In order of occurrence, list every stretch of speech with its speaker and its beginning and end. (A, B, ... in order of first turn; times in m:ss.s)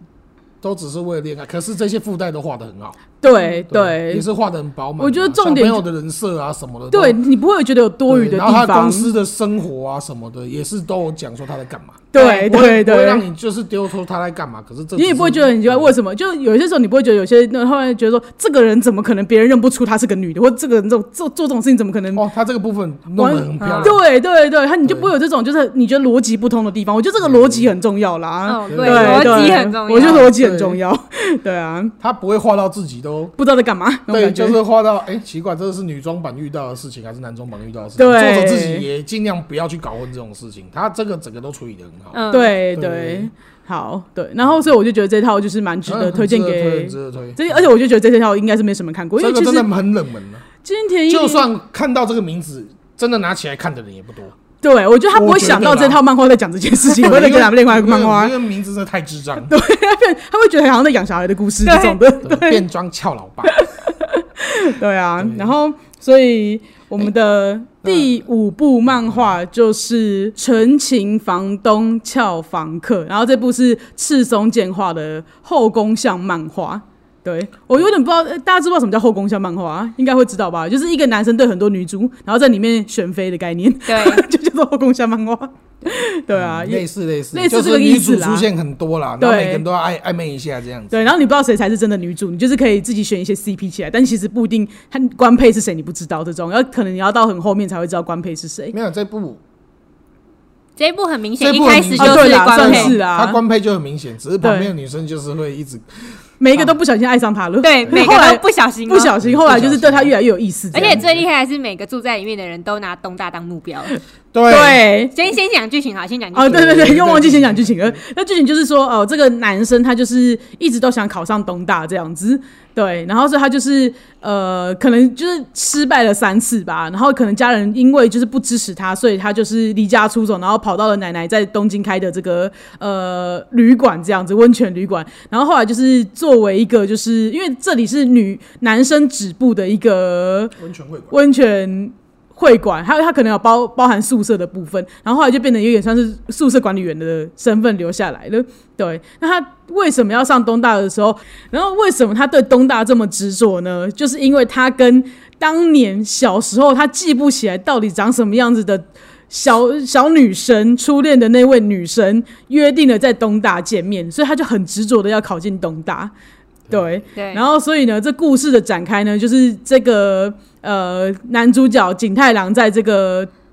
0:00.6-0:03.0 A
0:03.2-0:04.2 B
0:03.7-0:07.2 A
0:05.0-0:05.8 B
0:06.9-0:09.1 B
0:08.1-0:15.9 A
0:12.1-0:13.2 B
0:15.0-0:22.2 B
0:22.1-0:24.0 A
0:23.2-0:31.9 B
0:23.6-0:23.9 C
0:24.8-0:25.1 A
0:27.2-0:27.7 A
0:28.4-0:30.3 C
0:28.7-0:30.8 A
0:32.0-0:33.3 A
0:33.4-0:34.6 B
0:34.1-0:42.2 A
0:38.0-0:38.8 B
0:42.1-0:42.6 C
0:42.3-0:49.7 B
0:42.7-0:43.3 A
0:45.9-0:47.7 A
0:49.2-0:50.4 A
0:50.6-0:51.4 B
0:51.1-0:54.4 A
0:54.6-0:58.3 B
0:55.1-0:56.0 A
0:56.9-0:59.5 A
0:59.5-1:02.6 B
1:01.6-1:02.0 C
1:02.2-1:03.5 A
1:03.4-1:28.5 B
1:05.2-1:05.5 A
1:07.8-1:08.1 A
1:09.0-1:09.3 A
1:23.9-1:24.2 C
1:26.3-1:31.1 A
1:29.2-1:29.6 B
1:30.9-1:38.7 B
1:38.7-1:39.4 A
1:40.8-1:43.0 C
1:41.4-1:45.8 A
1:42.0-1:43.4 B
1:44.4-1:44.7 B
1:46.4-1:51.0 B
1:47.6-1:49.1 C
1:49.2-1:50.1 A
1:50.7-1:53.9 C
1:50.7-1:51.2 A
1:54.3-1:54.8 A
1:54.5-1:55.1 B
1:55.1-1:56.6 C
1:56.3-2:20.5 B
1:56.4-1:58.0 A
2:20.6-2:21.1 A
2:21.1-2:46.1 B
2:46.7-2:47.0 A
2:46.7-2:53.3 B
2:47.2-2:47.4 C